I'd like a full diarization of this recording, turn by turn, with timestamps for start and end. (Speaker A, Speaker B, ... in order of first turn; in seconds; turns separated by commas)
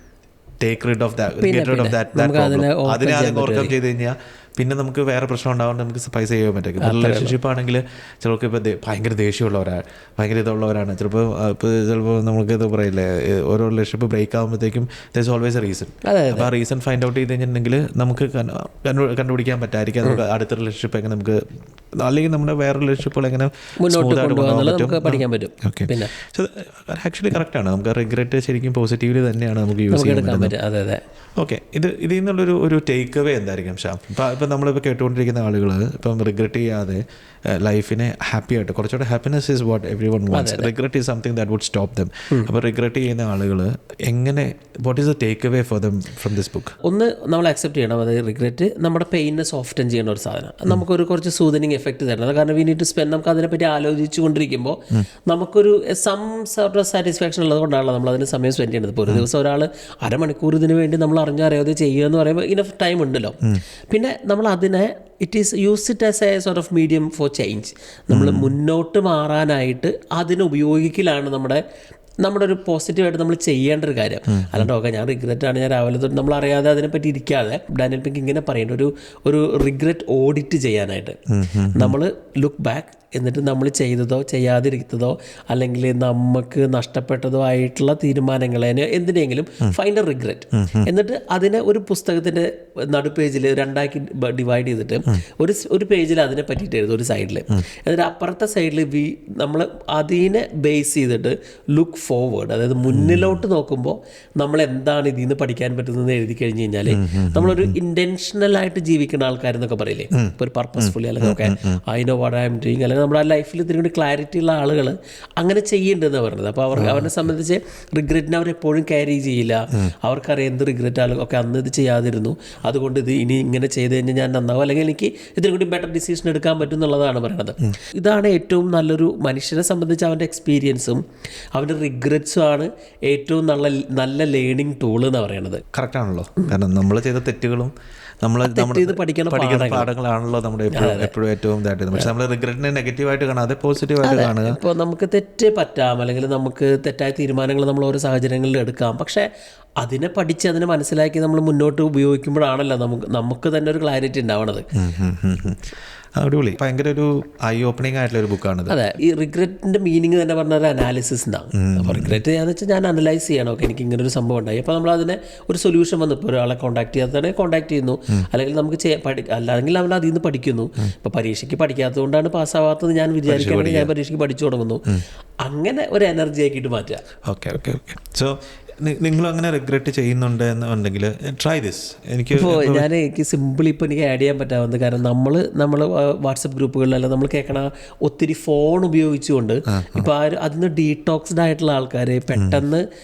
Speaker A: 0.6-21.4, Speaker B: 1.4-3.7, Speaker B: 6.8-7.4, Speaker B: 16.1-16.5, Speaker A: 22.0-30.6, Speaker B: 23.8-26.1, Speaker B: 29.9-31.0, Speaker A: 31.4-37.0, Speaker A: 37.6-46.8, Speaker B: 40.3-40.7, Speaker B: 46.9-63.4, Speaker B: 63.9-71.6, Speaker A: 68.1-68.5, Speaker B: 72.2-81.2, Speaker A: 74.3-74.7, Speaker A: 81.3-82.0, Speaker B: 81.8-131.0, Speaker A: 90.5-90.9, Speaker A: 102.9-103.4, Speaker A: 106.9-107.8, Speaker A: 110.1-111.8, Speaker A: 116.8-117.1, Speaker B: 131.6-135.6, Speaker A: 135.7-137.7, Speaker A: 138.2-144.6, Speaker B: 138.4-139.9, Speaker B: 140.7-141.1, Speaker B: 144.0-149.3, Speaker B: 149.8-154.7, Speaker A: 154.8-155.7, Speaker A: 156.2-158.8, Speaker B: 158.7-174.8, Speaker A: 161.6-162.2, Speaker A: 173.3-173.9, Speaker B: 175.4-177.0, Speaker A: 177.3-182.9, Speaker B: 182.3-192.8, Speaker A: 189.7-190.1, Speaker A: 192.3-192.6